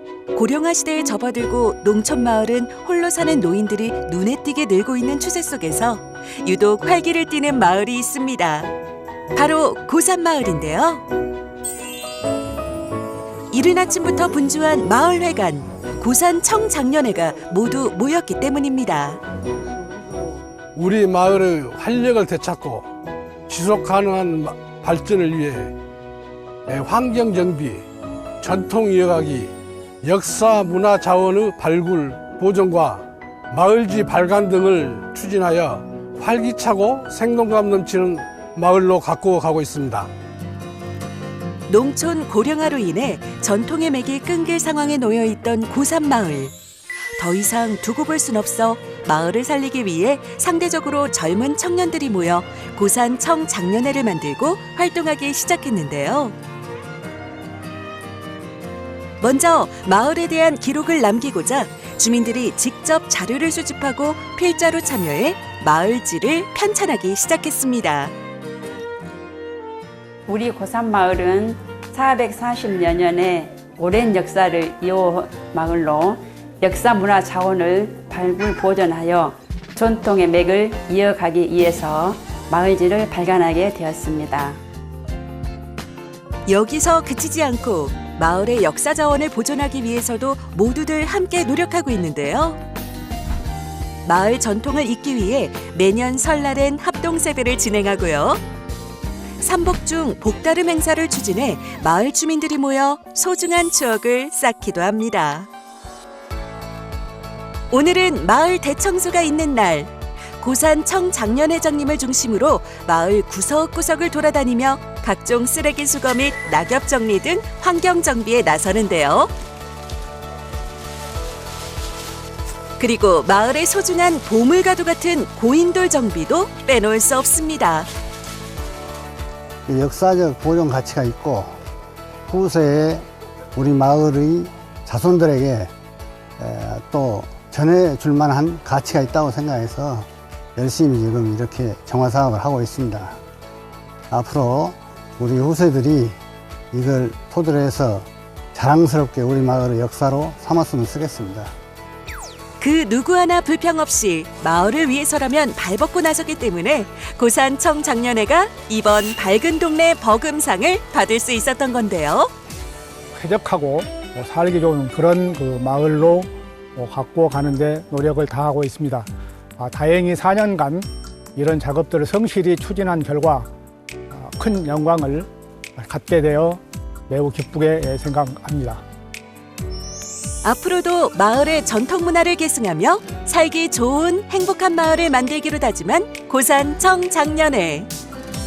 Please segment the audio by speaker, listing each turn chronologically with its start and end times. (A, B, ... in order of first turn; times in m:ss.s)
0:00.3-0:08.7 A
0:09.3-0:11.0 A
0:13.5-0:19.2 A
0:20.7-0:22.9 B
0:23.5-0:25.7 B
0:26.7-0:27.8 B
0:28.4-0:40.1 B
0:41.7-0:46.5 A
0:47.2-0:56.3 A
0:59.2-1:08.1 A
1:10.3-1:24.6 C
1:26.5-1:32.6 A
1:34.0-1:38.4 A
1:39.4-1:45.5 A
1:47.7-1:59.3 A
2:02.8-2:07.9 A
2:09.7-2:11.6 D
2:12.3-2:15.7 D
2:16.4-2:23.2 D
2:24.1-2:26.2 D
2:26.7-2:31.5 D
2:32.6-2:42.3 A
2:43.2-2:53.5 E
2:54.1-2:58.8 E
3:00.4-3:07.9 A